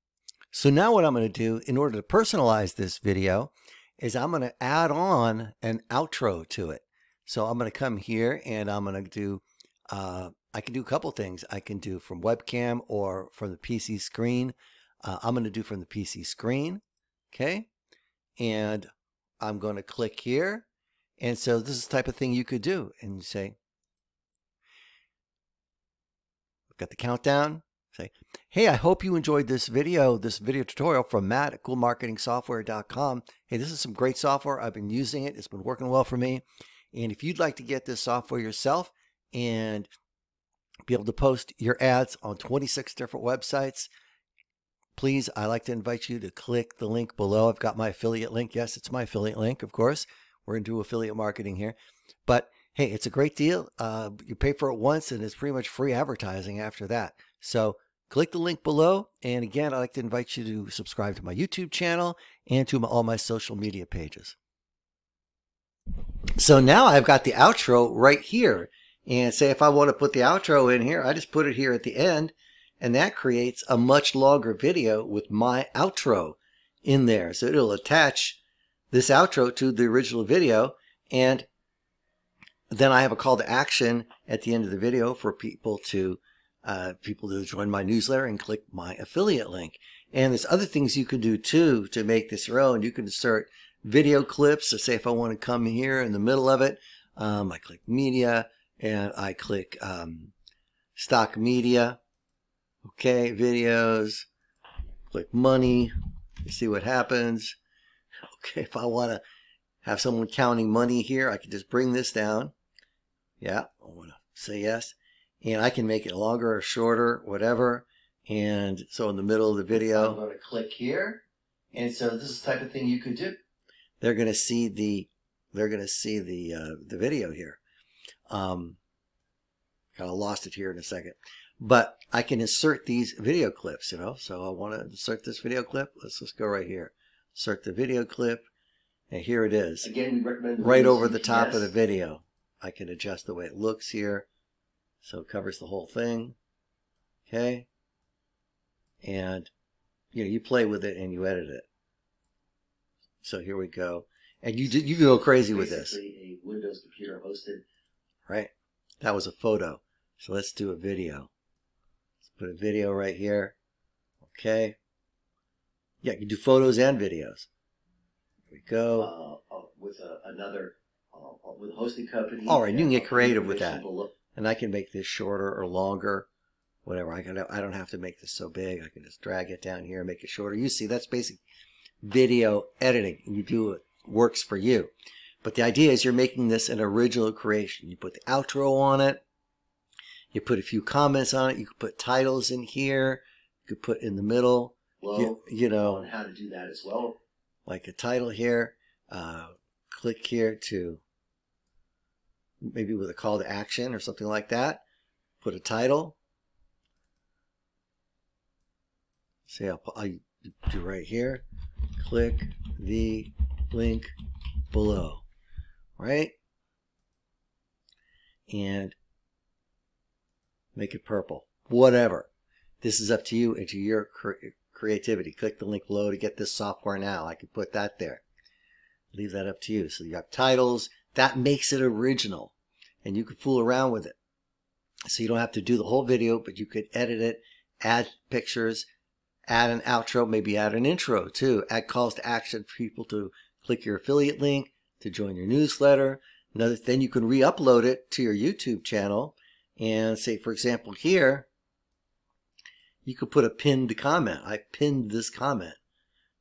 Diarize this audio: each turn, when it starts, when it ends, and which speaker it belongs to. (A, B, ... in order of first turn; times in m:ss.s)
0:00.5-0:17.7 A
0:18.4-0:18.9 A
0:19.4-0:20.6 A
0:21.2-0:23.6 A
0:26.7-0:39.9 A
0:40.9-0:43.9 A
0:45.0-0:51.8 A
0:52.3-1:04.4 A
1:06.4-1:18.4 A
1:18.9-1:21.5 A
1:22.7-1:40.3 A
1:41.0-1:42.0 A
1:42.8-1:44.3 A
1:45.1-1:45.9 A
1:46.4-1:47.6 A
1:48.2-1:49.2 A
1:49.8-1:52.5 A
1:53.4-2:01.2 A
1:59.9-2:00.2 B
2:01.7-2:03.4 A
2:04.0-2:07.6 A
2:08.3-2:08.8 A
2:10.0-2:18.4 A
2:19.1-2:19.9 A
2:19.8-2:21.7 B
2:20.6-2:24.3 A
2:25.0-2:26.4 A
2:27.3-2:27.6 A
2:29.0-2:29.5 A
2:30.1-2:31.6 A
2:33.2-2:36.0 A
2:35.3-2:37.6 B
2:39.0-2:41.3 A
2:42.2-2:43.5 A
2:44.2-2:44.8 A
2:46.0-2:47.5 A
2:48.5-2:49.1 A
2:49.0-2:54.1 B
2:52.5-2:56.3 A
2:56.8-3:01.4 A
3:02.0-3:04.9 A
3:05.4-3:09.2 A
3:10.3-3:16.1 A
3:15.0-3:17.2 B
3:17.6-3:21.0 A
3:22.6-3:24.8 A
3:25.4-3:26.2 A
3:29.5-3:31.4 A
3:32.0-3:34.1 A
3:34.7-3:35.2 A
3:36.0-3:36.3 A
3:38.5-3:38.9 A
3:40.8-3:42.3 A
3:42.8-3:48.2 A
3:49.1-3:54.1 A
3:55.1-3:58.8 A
3:59.5-4:11.5 A
4:13.0-4:15.8 A